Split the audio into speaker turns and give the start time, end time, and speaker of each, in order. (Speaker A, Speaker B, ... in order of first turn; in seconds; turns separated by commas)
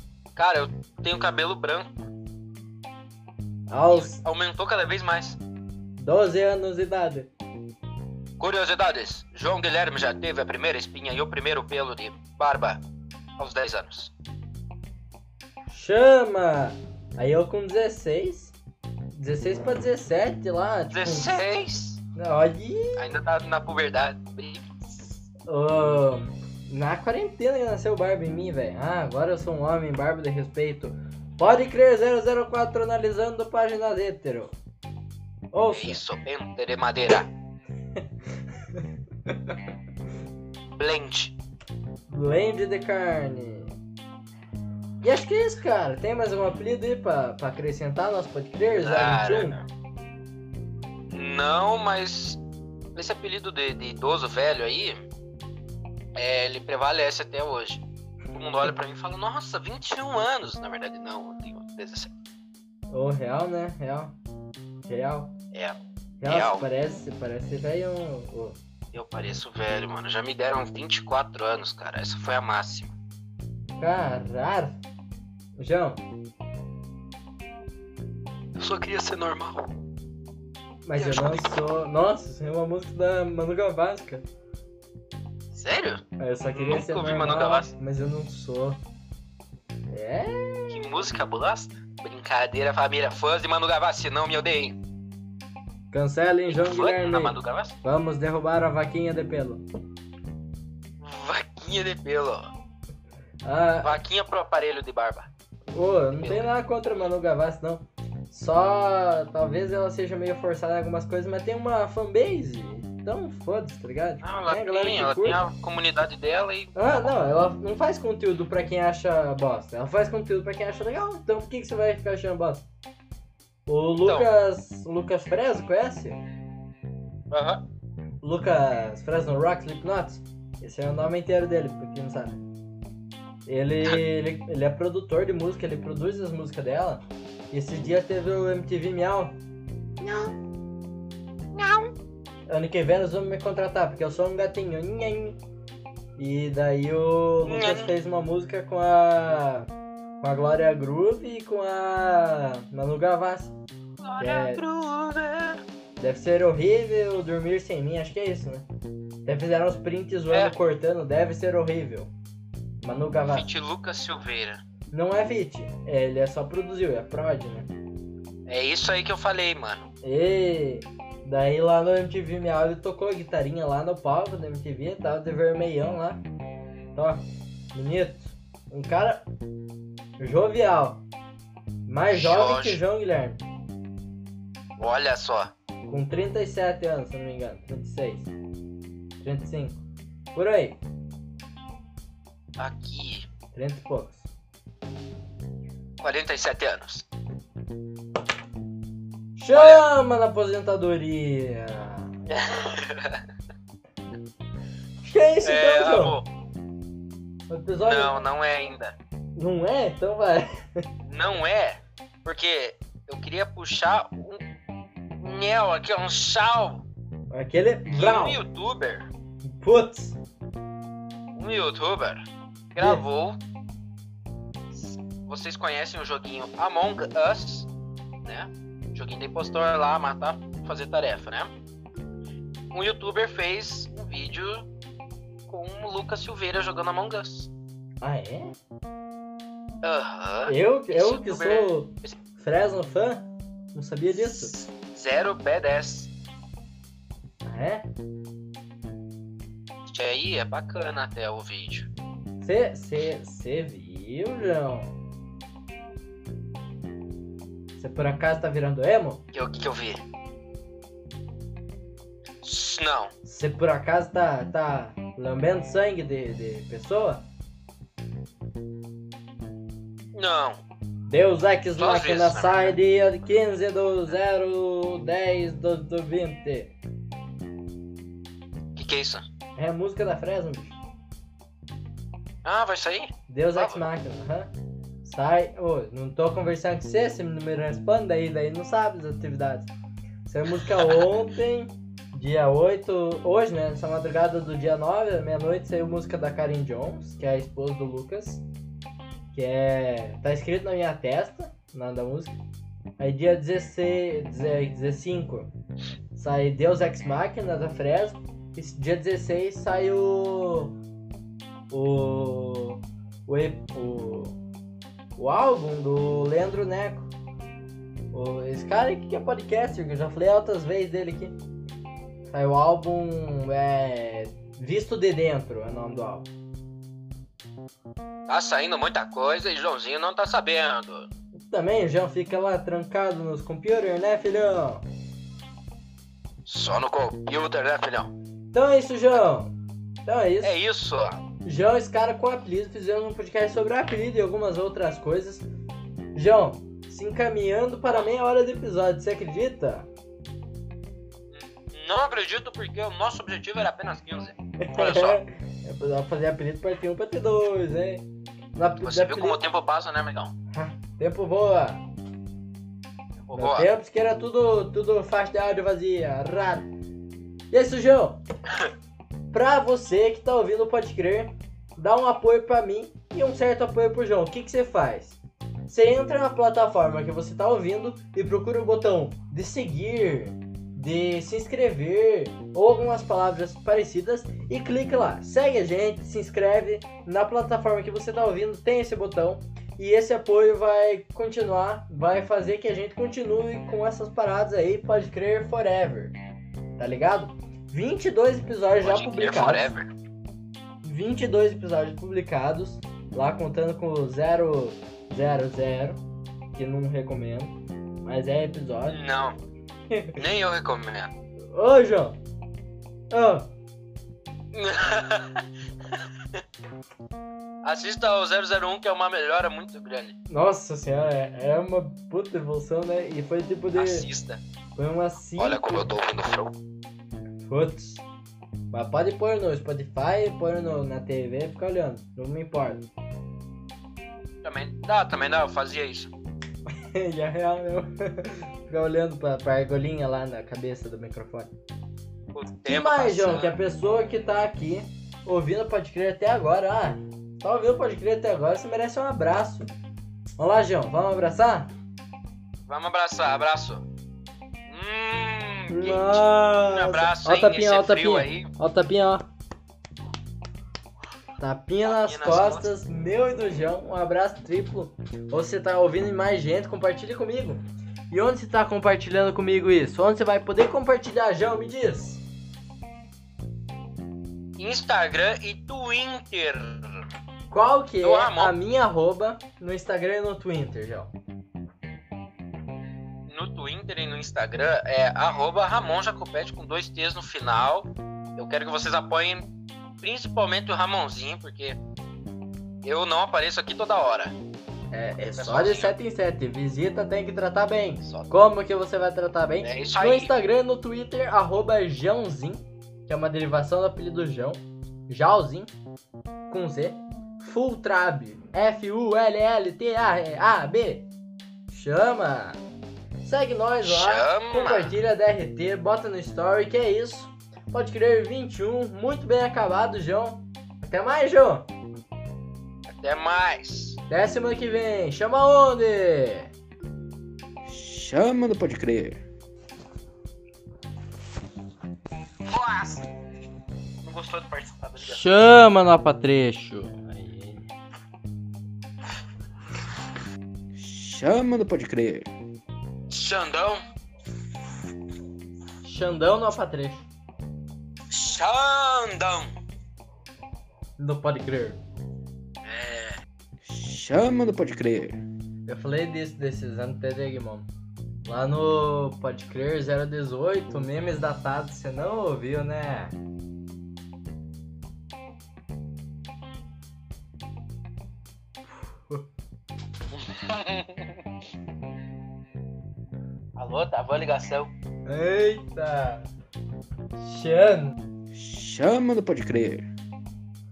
Speaker A: 0.3-1.9, Speaker B: 3.7-4.2, Speaker A: 3.9-5.4, Speaker B: 6.0-7.3, Speaker A: 8.4-12.8, Speaker A: 13.4-14.1, Speaker B: 15.7-18.5, Speaker B: 19.1-21.3, Speaker A: 20.9-22.0, Speaker B: 22.1-23.1, Speaker A: 23.0-25.2, Speaker B: 25.5-34.5, Speaker B: 35.5-36.0, Speaker A: 35.7-37.3, Speaker B: 38.8-39.5, Speaker A: 40.8-41.3, Speaker B: 42.1-43.7, Speaker B: 45.0-49.6, Speaker A: 48.7-49.6, Speaker A: 51.1-52.4, Speaker A: 52.9-55.0, Speaker A: 56.1-62.1, Speaker B: 62.9-64.1, Speaker B: 64.8-65.3, Speaker A: 65.5-66.6, Speaker B: 66.2-68.6, Speaker A: 68.9-72.9, Speaker B: 73.8-74.8, Speaker B: 75.6-76.0, Speaker A: 78.5-79.7, Speaker B: 80.8-84.2, Speaker A: 81.0-81.5, Speaker A: 85.5-87.7, Speaker B: 86.2-88.8, Speaker B: 89.9-91.0, Speaker A: 90.7-94.8, Speaker B: 95.9-99.6, Speaker A: 96.5-97.8, Speaker A: 101.0-102.5, Speaker B: 103.4-104.0, Speaker A: 103.8-105.3, Speaker B: 105.7-115.4, Speaker A: 106.2-106.5, Speaker A: 114.2-116.7, Speaker B: 116.7-122.6, Speaker B: 123.7-126.2, Speaker A: 124.0-124.3, Speaker A: 127.3-127.6, Speaker B: 128.2-132.4, Speaker B: 133.4-139.4, Speaker A: 141.5-141.9, Speaker B: 142.5-145.4, Speaker B: 146.2-149.7, Speaker A: 147.4-147.9, Speaker B: 150.2-153.5, Speaker A: 154.0-155.6, Speaker B: 154.2-154.6, Speaker B: 156.0-158.7, Speaker B: 159.2-162.1, Speaker A: 160.3-160.5, Speaker B: 162.8-163.5, Speaker A: 163.3-164.6, Speaker B: 164.9-167.7, Speaker A: 168.4-169.9, Speaker B: 170.0-176.2, Speaker B: 176.9-179.2, Speaker B: 180.2-181.0, Speaker B: 181.8-183.4, Speaker A: 182.1-182.8, Speaker A: 184.8-185.5, Speaker B: 185.8-188.3, Speaker B: 189.2-189.8, Speaker B: 190.3-190.8, Speaker A: 192.6-193.3, Speaker B: 193.5-194.3, Speaker A: 196.0-197.0, Speaker B: 199.3-202.1, Speaker A: 199.5-199.8, Speaker A: 202.3-203.2, Speaker B: 205.0-206.2, Speaker A: 205.4-206.3, Speaker B: 207.5-208.2, Speaker A: 207.8-208.9, Speaker B: 209.3-210.8, Speaker A: 211.0-214.4, Speaker A: 215.2-216.8, Speaker B: 217.3-218.4, Speaker A: 217.9-219.1, Speaker B: 219.4-220.2, Speaker A: 221.3-223.4, Speaker B: 222.8-223.0, Speaker A: 224.7-227.7, Speaker A: 228.2-231.5, Speaker A: 232.7-234.7, Speaker A: 235.5-237.5, Speaker B: 238.0-238.5, Speaker A: 239.8-242.2, Speaker B: 240.4-244.5, Speaker A: 244.1-246.1, Speaker B: 247.4-247.9, Speaker A: 249.8-251.9, Speaker B: 252.4-254.9, Speaker B: 257.8-259.2, Speaker A: 259.3-260.0, Speaker A: 262.4-263.1, Speaker B: 263.2-267.2, Speaker A: 270.1-270.6, Speaker B: 271.1-276.7, Speaker A: 271.8-272.7, Speaker A: 278.7-279.2, Speaker B: 279.6-280.8, Speaker A: 282.4-283.9, Speaker B: 283.3-284.5, Speaker B: 285.0-289.7, Speaker B: 290.2-298.4, Speaker A: 290.6-291.0, Speaker B: 299.3-302.4, Speaker B: 303.0-305.5, Speaker B: 306.1-310.7, Speaker B: 311.7-314.4, Speaker B: 315.2-317.1, Speaker B: 318.1-321.4, Speaker B: 322.3-326.3, Speaker A: 328.3-331.1, Speaker B: 331.3-334.8, Speaker A: 336.4-338.1, Speaker B: 338.5-339.5, Speaker B: 340.0-340.6, Speaker A: 340.4-341.2, Speaker B: 341.4-345.5, Speaker B: 346.1-349.9, Speaker A: 351.3-355.2, Speaker B: 354.6-359.4, Speaker A: 358.8-360.3, Speaker B: 360.5-361.8, Speaker A: 363.2-363.7, Speaker B: 363.3-366.7, Speaker B: 367.5-368.2, Speaker B: 369.3-396.1, Speaker B: 396.8-399.7, Speaker A: 398.8-399.9, Speaker B: 400.8-406.0, Speaker B: 406.5-409.0, Speaker A: 408.9-409.4, Speaker A: 410.1-411.1, Speaker B: 411.5-412.2, Speaker B: 413.1-413.5, Speaker A: 414.5-416.4, Speaker A: 417.6-420.1, Speaker B: 420.3-424.1, Speaker A: 423.7-424.4, Speaker B: 424.8-425.9, Speaker A: 425.4-426.5, Speaker B: 427.4-428.0, Speaker B: 428.7-432.8, Speaker A: 434.4-436.1, Speaker B: 436.8-441.5, Speaker A: 442.3-443.6, Speaker B: 442.6-449.7, Speaker B: 450.4-451.7, Speaker A: 452.7-453.9, Speaker A: 454.7-458.5, Speaker B: 455.7-459.2, Speaker B: 461.4-472.2, Speaker A: 461.8-462.7, Speaker A: 474.6-477.1, Speaker B: 477.5-481.1, Speaker A: 478.0-478.5, Speaker A: 483.3-489.5, Speaker A: 490.0-491.8, Speaker A: 492.8-494.4, Speaker B: 494.9-505.7, Speaker A: 495.3-495.9, Speaker A: 498.0-498.3, Speaker A: 499.6-500.3, Speaker B: 506.5-511.1, Speaker B: 511.7-512.6, Speaker B: 513.2-521.7, Speaker A: 513.8-514.9, Speaker A: 522.9-524.0, Speaker B: 524.1-526.5, Speaker C: 527.7-529.2, Speaker A: 532.5-533.1, Speaker A: 534.0-535.2, Speaker B: 535.0-537.6, Speaker C: 540.7-542.3, Speaker A: 543.1-543.8, Speaker B: 545.8-547.1, Speaker A: 548.1-549.5, Speaker B: 551.0-551.8, Speaker A: 552.6-553.2, Speaker C: 553.6-555.2, Speaker B: 555.7-557.7, Speaker B: 558.2-563.1, Speaker B: 568.8-569.2, Speaker A: 570.1-571.2, Speaker A: 573.5-574.7, Speaker B: 575.0-576.3, Speaker B: 577.2-578.0, Speaker C: 578.3-579.9